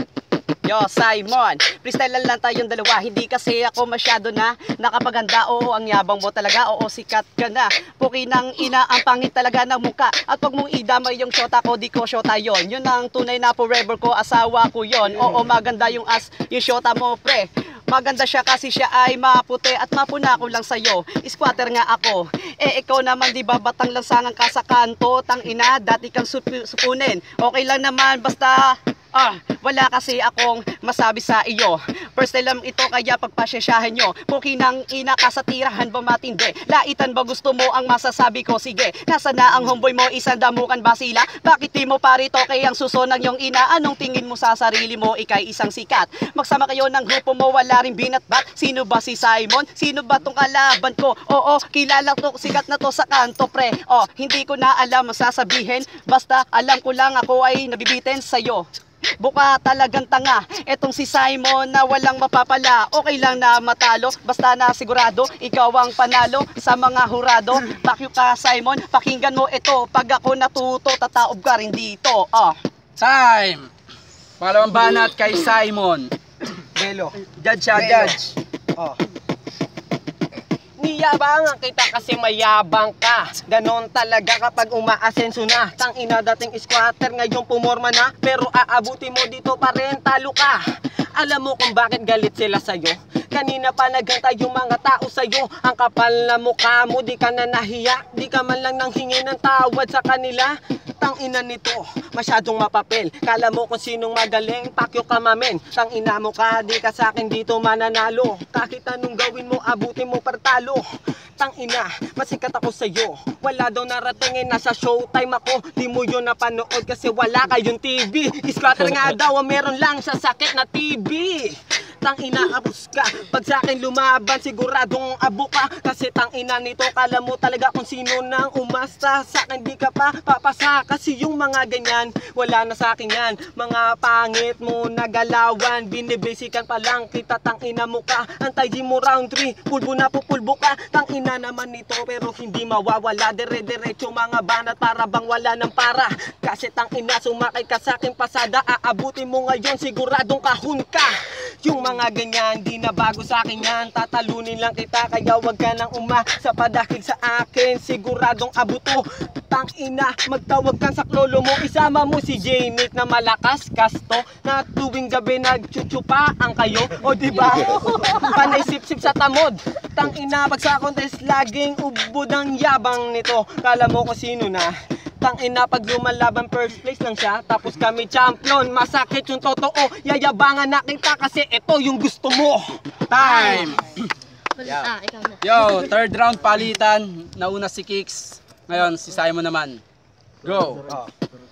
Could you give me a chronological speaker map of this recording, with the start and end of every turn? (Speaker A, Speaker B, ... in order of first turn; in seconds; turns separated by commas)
Speaker A: 0.6-58.6, Speaker A: 59.2-72.5, Speaker B: 73.0-73.7, Speaker B: 74.4-76.1, Speaker C: 76.7-77.1, Speaker B: 77.3-78.3, Speaker C: 77.7-78.1, Speaker C: 80.8-90.6, Speaker C: 91.2-110.8, Speaker C: 111.4-151.1, Speaker C: 151.6-182.8, Speaker B: 183.1-184.1, Speaker D: 183.2-183.8, Speaker D: 184.6-185.9, Speaker B: 185.4-189.8, Speaker B: 190.4-190.8